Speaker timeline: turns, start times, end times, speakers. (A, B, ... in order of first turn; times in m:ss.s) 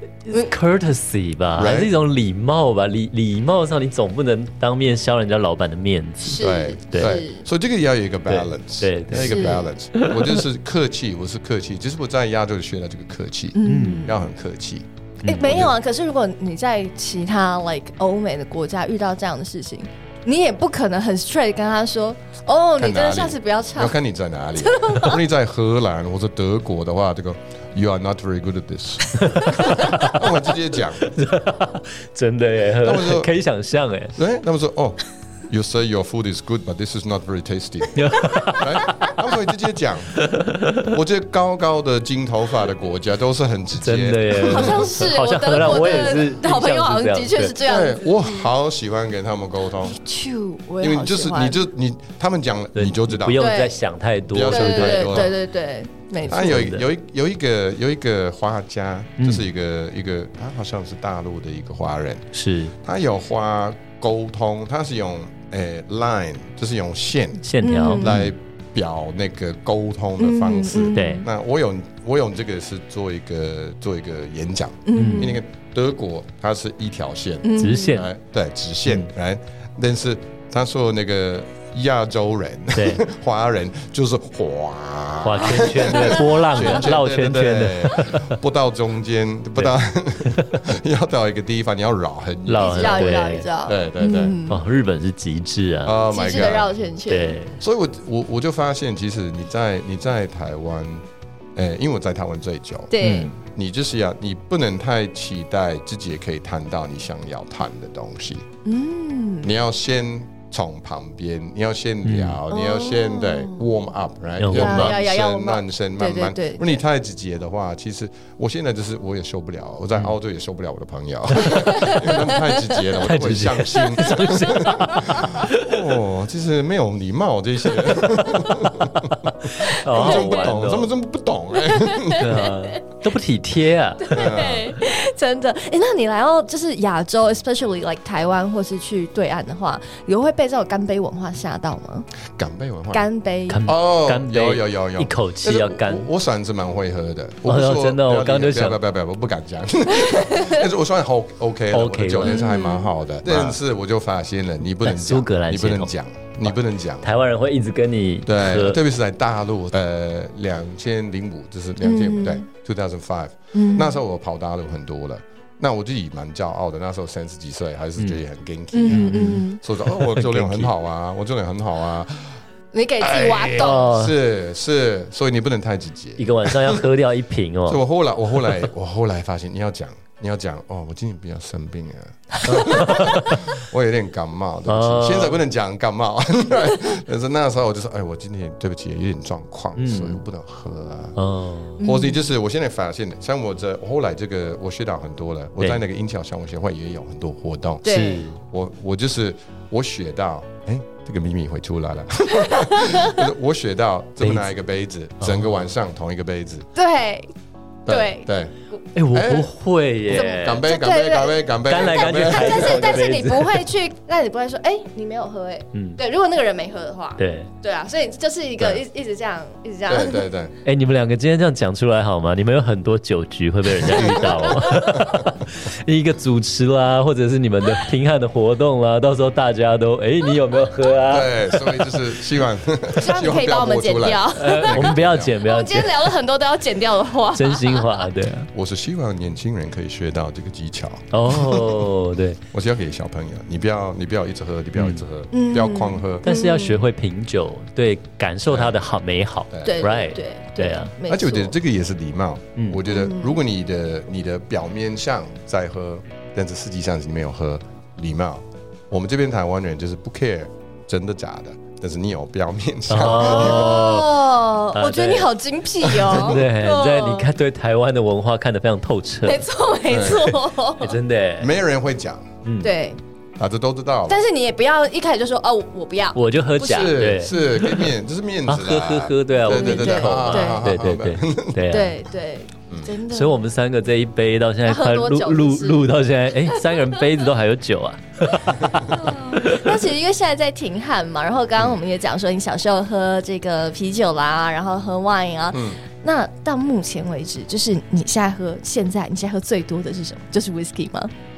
0:00.3-0:07.2 A
0:01.6-0:01.9 B
0:06.2-0:07.4 C
0:06.4-0:15.7 B
0:08.3-0:10.4 A
0:09.2-0:09.6 C
0:13.5-0:14.2 C
0:13.6-0:14.1 A
0:15.2-0:15.7 A
0:15.2-0:23.9 C
0:22.8-0:31.1 B
0:24.6-0:25.2 C
0:29.3-0:30.1 A
0:29.4-0:30.1 C
0:31.1-0:34.2 A
0:32.8-0:33.3 B
0:34.2-0:40.2 B
0:37.9-0:39.1 A
0:40.2-0:40.9 A
0:40.8-0:44.9 B
0:43.8-0:47.6 A
0:44.5-0:48.5 C
0:47.6-0:50.0 B
0:49.9-0:51.6 C
0:50.8-0:53.4 B
0:52.7-0:55.3 A
0:53.4-0:53.8 C
0:54.3-0:55.3 B
0:54.4-0:56.6 C
0:56.3-0:56.8 A
0:56.3-1:02.3 B
0:59.2-0:59.4 A
1:02.3-1:02.7 A
1:02.8-1:34.4 B
1:07.4-1:08.3 A
1:07.6-1:08.1 C
1:10.2-1:11.2 C
1:10.9-1:11.2 A
1:14.8-1:15.4 C
1:14.9-1:15.4 A
1:17.4-1:18.0 C
1:17.6-1:18.1 A
1:22.7-1:23.0 A
1:25.2-1:28.3 A
1:25.5-1:26.7 C
1:30.2-1:30.6 A
1:32.5-1:33.5 A
1:32.6-1:34.6 C
1:34.5-1:36.0 A
1:35.8-1:36.7 B
1:36.1-1:37.4 C
1:37.1-1:37.6 A
1:37.6-1:48.4 B
1:42.9-1:43.3 C
1:43.0-1:43.3 A
1:48.6-1:49.5 C
1:49.4-2:12.3 B
1:52.0-1:52.4 A
1:52.5-1:53.6 C
1:54.4-1:55.0 A
1:54.5-1:56.8 C
2:01.6-2:02.6 C
2:03.0-2:05.9 A
2:04.6-2:05.4 C
2:09.4-2:10.9 A
2:09.9-2:10.5 C
2:11.6-2:12.8 C
2:12.1-2:14.3 A
2:14.0-2:22.1 C
2:14.1-2:14.7 B
2:22.3-2:23.0 B
2:22.9-2:23.6 C
2:23.5-2:26.1 A
2:23.6-2:37.1 B
2:27.4-2:28.8 A
2:30.1-2:30.6 C
2:31.7-2:32.4 A
2:32.2-2:32.9 C
2:33.2-2:33.6 A
2:34.8-2:35.9 A
2:36.4-2:38.8 A
2:38.2-2:52.4 B
2:41.8-2:42.4 C
2:43.5-2:44.0 C
2:48.7-2:49.6 C
2:48.9-2:50.7 A
2:52.7-2:53.9 C
2:53.0-2:56.8 B
2:53.6-2:54.2 A
2:56.2-2:57.8 A
2:57.7-3:11.2 B
3:02.4-3:03.5 A
3:04.7-3:05.4 A
3:09.8-3:10.2 A
3:11.2-3:11.8 A
3:11.8-3:12.2 C
3:11.8-3:26.6 B
3:17.8-3:18.2 C
3:17.9-3:18.4 A
3:22.3-3:23.3 C
3:24.2-3:24.5 A
3:25.2-3:25.5 A
3:26.7-3:27.3 C
3:27.8-3:28.5 B
3:27.9-3:28.3 C
3:28.9-3:30.6 A
3:29.1-3:29.5 B
3:30.1-3:33.0 B
3:30.1-3:40.2 C
3:31.6-3:33.7 A
3:35.7-3:36.0 A
3:37.2-3:37.5 A
3:39.9-3:40.5 B
3:40.6-3:52.0 A
3:44.1-3:44.5 C
3:51.1-3:55.4 B
3:52.9-3:58.0 C
3:54.4-3:56.1 A
3:57.3-3:58.5 A
3:58.5-4:01.9 B
4:01.1-4:02.4 A
4:02.5-4:06.2 B
4:04.8-4:05.0 A
4:05.3-4:06.8 C
4:06.2-4:10.9 A
4:08.5-4:08.8 B
4:09.5-4:09.9 B
4:09.6-4:11.5 C
4:11.0-4:23.8 B
4:12.6-4:12.8 A
4:12.9-4:13.4 C
4:22.9-4:25.3 A
4:23.0-4:27.3 C
4:25.9-4:26.4 B
4:26.1-4:29.5 A
4:29.2-4:31.0 C
4:29.9-4:30.3 B
4:30.3-4:31.6 A
4:31.4-4:32.3 B
4:32.4-4:32.7 A
4:32.6-4:33.0 C
4:33.4-4:34.2 B
4:34.1-4:37.8 C
4:36.2-4:37.9 A
4:36.7-4:41.6 B
4:38.5-4:42.0 A
4:39.5-4:40.6 C
4:41.7-4:43.4 C
4:42.7-4:42.9 B
4:43.1-4:49.8 A
4:44.6-4:45.9 C
4:46.4-4:47.0 C
4:48.3-5:01.1 C
4:48.6-4:48.9 B
4:55.5-4:55.8 B